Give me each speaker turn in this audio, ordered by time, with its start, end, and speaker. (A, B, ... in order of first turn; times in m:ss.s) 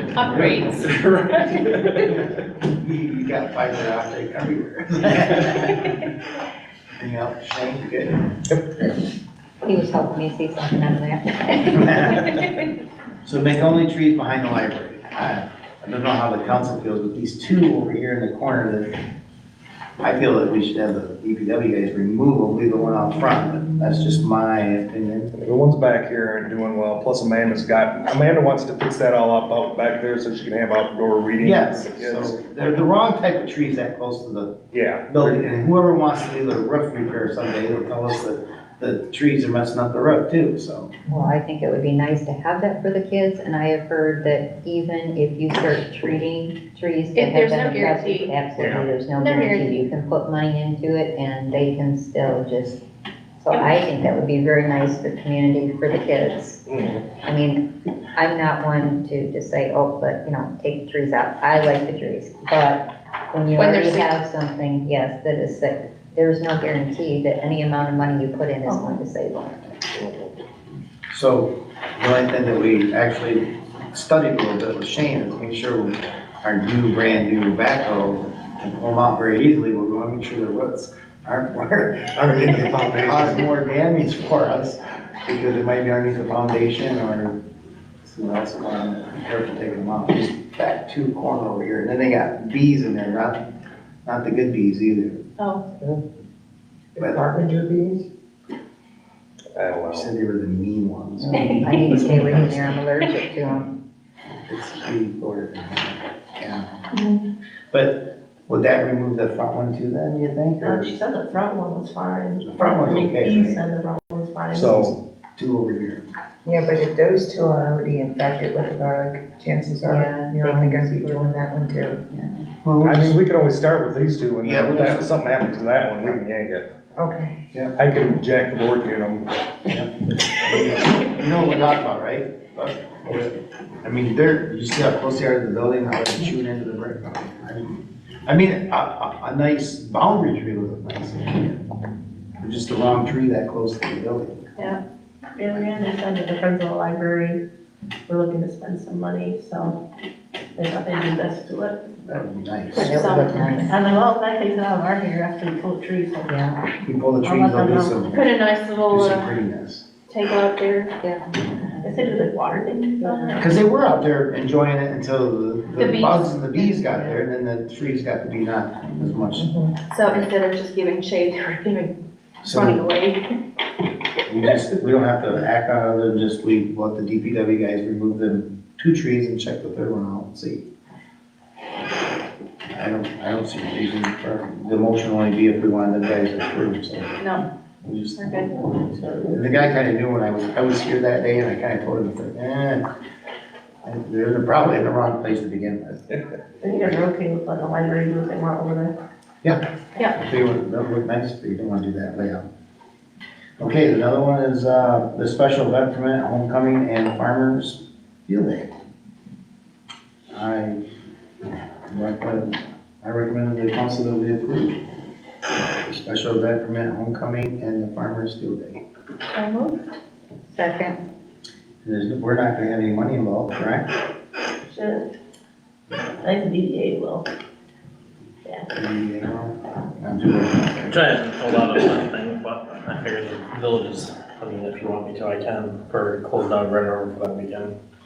0:00.2-0:00.9 A
0:01.9-0:06.0 B
0:07.0-0:08.2 B
0:09.6-0:12.3 C
0:11.6-0:12.4 B
0:13.2-0:18.9 B
0:20.0-0:25.3 B
0:25.4-0:32.8 D
0:31.4-0:34.6 B
0:34.7-0:35.6 D
0:35.1-0:40.9 B
0:41.1-0:52.8 C
0:47.2-0:48.3 A
0:48.6-0:48.8 E
0:49.2-0:49.7 A
0:53.4-0:56.6 C
0:56.7-0:57.0 D
0:57.2-0:57.6 C
0:58.2-1:09.6 C
1:03.5-1:04.1 A
1:08.6-1:09.0 F
1:10.0-1:10.2 D
1:11.1-1:27.4 B
1:22.1-1:23.4 D
1:28.0-1:33.4 B
1:34.0-1:35.2 B
1:35.7-1:36.0 C
1:37.0-1:38.0 G
1:37.0-1:37.2 B
1:39.5-1:40.1 D
1:39.8-1:42.4 B
1:41.2-1:43.7 C
1:41.4-1:42.1 F
1:44.5-1:46.7 B
1:47.7-1:50.9 B
1:50.6-1:54.9 F
1:52.4-1:53.6 B
1:54.5-1:55.0 D
1:55.4-1:56.0 B
1:56.4-2:02.4 G
1:59.8-2:01.3 C
2:02.6-2:03.2 B
2:02.8-2:06.6 D
2:04.4-2:05.1 B
2:07.0-2:07.4 G
2:07.8-2:09.3 D
2:09.7-2:21.6 B
2:22.4-2:24.7 B
2:25.4-2:27.4 F
2:28.1-2:29.8 F
2:30.6-2:31.8 F
2:32.0-2:33.2 B
2:32.8-2:33.8 C
2:32.8-2:36.4 F
2:36.3-2:36.6 C
2:36.8-2:38.4 B
2:37.2-2:38.0 F
2:38.1-2:39.1 A
2:38.9-2:39.8 B
2:40.1-2:40.6 A
2:40.6-2:40.9 F
2:41.0-2:42.2 C
2:41.8-2:43.5 F
2:43.0-2:43.5 C
2:43.4-2:49.5 B
2:46.8-2:47.2 C
2:49.9-2:51.9 A
2:52.4-2:52.8 B
2:52.5-2:53.2 A
2:54.3-3:00.6 B
3:02.7-3:07.2 B
3:07.8-3:12.9 B
3:13.8-3:16.1 B
3:16.6-3:18.9 F
3:20.1-3:22.4 B
3:23.6-3:28.7 B
3:30.3-3:30.8 B
3:31.9-3:34.8 B
3:35.8-3:38.8 B
3:39.3-3:39.8 F
3:40.5-3:41.0 C
3:41.8-3:43.9 B
3:44.7-3:45.1 F
3:46.2-3:47.3 F
3:48.7-3:51.0 B
3:50.9-3:57.7 E